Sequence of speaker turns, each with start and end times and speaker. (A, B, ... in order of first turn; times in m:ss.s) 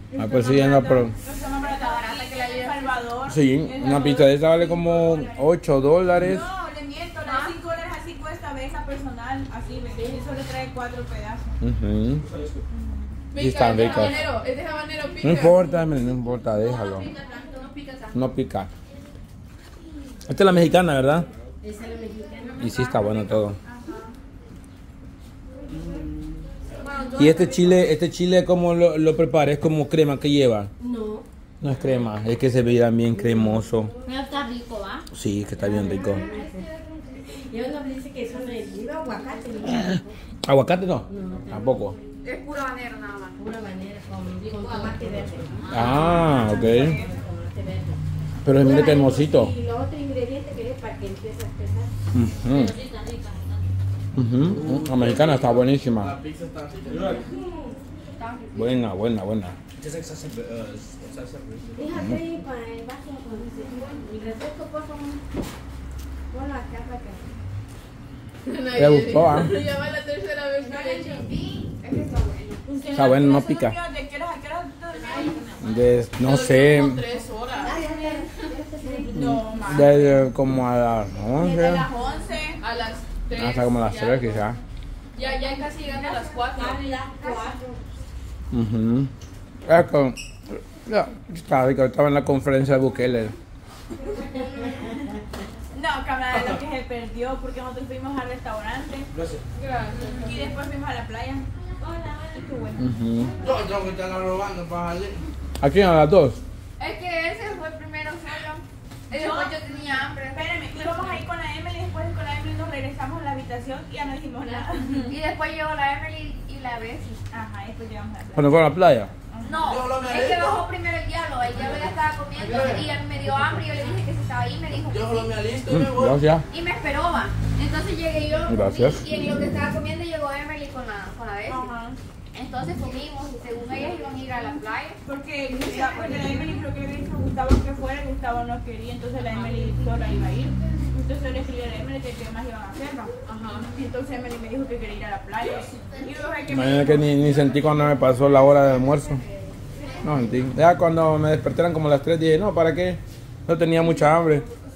0:00.2-0:01.1 A
0:00.3-0:05.5 B
0:01.6-0:03.0 C
0:03.3-0:06.4 A
0:06.2-0:11.6 B
0:07.2-0:07.6 C
0:09.9-0:10.3 D
0:11.6-0:12.3 A
0:12.7-0:13.2 B
0:13.3-0:15.7 E
0:13.4-0:14.2 A
0:13.8-0:14.1 B
0:15.2-0:17.1 A
0:16.6-0:18.2 C
0:18.1-0:18.7 A
0:20.3-0:21.3 A
0:21.6-0:23.4 D
0:22.6-0:23.6 A
0:23.6-0:24.1 B
0:25.7-0:26.7 F
0:26.8-0:27.2 C
0:26.9-0:27.9 E
0:27.2-0:30.7 A
0:30.8-0:32.1 D
0:31.6-0:33.9 A
0:33.1-0:34.1 D
0:34.0-0:35.1 G
0:35.1-0:36.2 A
0:35.6-0:40.1 D
0:36.0-0:37.0 B
0:40.4-0:42.0 A
0:41.1-0:42.2 D
0:42.2-0:43.4 C
0:43.4-0:48.0 D
0:44.4-0:46.2 G
0:45.7-0:47.0 A
0:45.7-0:47.2 B
0:48.4-0:49.5 A
0:48.6-0:51.9 D
0:52.1-0:52.8 A
0:52.4-0:53.7 G
0:54.1-0:56.1 A
0:54.5-0:57.3 F
0:57.1-0:57.8 D
0:58.2-0:58.8 C
0:58.6-0:59.6 A
0:59.9-1:01.7 F
1:01.8-1:05.2 D
1:06.3-1:07.2 D
1:08.4-1:11.2 E
1:08.8-1:09.5 A
1:10.7-1:11.1 D
1:11.0-1:13.0 C
1:12.7-1:15.7 B
1:12.9-1:13.8 A
1:15.6-1:17.0 A
1:16.2-1:17.8 E
1:17.6-1:19.4 D
1:18.9-1:20.2 B
1:19.3-1:21.9 A
1:21.4-1:22.6 B
1:21.4-1:21.9 D
1:22.6-1:24.4 E
1:23.4-1:24.6 A
1:25.2-1:26.9 E
1:26.4-1:27.8 D
1:27.2-1:27.6 C
1:28.5-1:29.1 A
1:29.7-1:33.4 A
1:35.7-1:39.1 B
1:36.3-1:36.6 F
1:39.1-1:39.4 F
1:39.5-1:40.4 E
1:40.1-1:42.9 B
1:42.8-1:43.3 A
1:43.4-1:45.2 F
1:45.6-1:46.4 A
1:46.8-1:50.5 C
1:49.1-1:49.5 B
1:50.3-1:55.1 B
1:54.5-1:57.2 C
1:57.3-1:58.6 B
1:58.4-1:59.1 A
1:59.3-1:59.6 B
1:59.4-2:05.4 C
1:59.6-2:00.6 F
2:01.6-2:03.0 F
2:04.9-2:06.3 F
2:05.7-2:06.4 A
2:06.5-2:11.7 C
2:08.5-2:09.0 A
2:11.5-2:12.0 B
2:12.3-2:16.6 C
2:15.1-2:27.1 B
2:23.3-2:23.7 E
2:26.5-2:29.2 A
2:30.0-2:34.5 A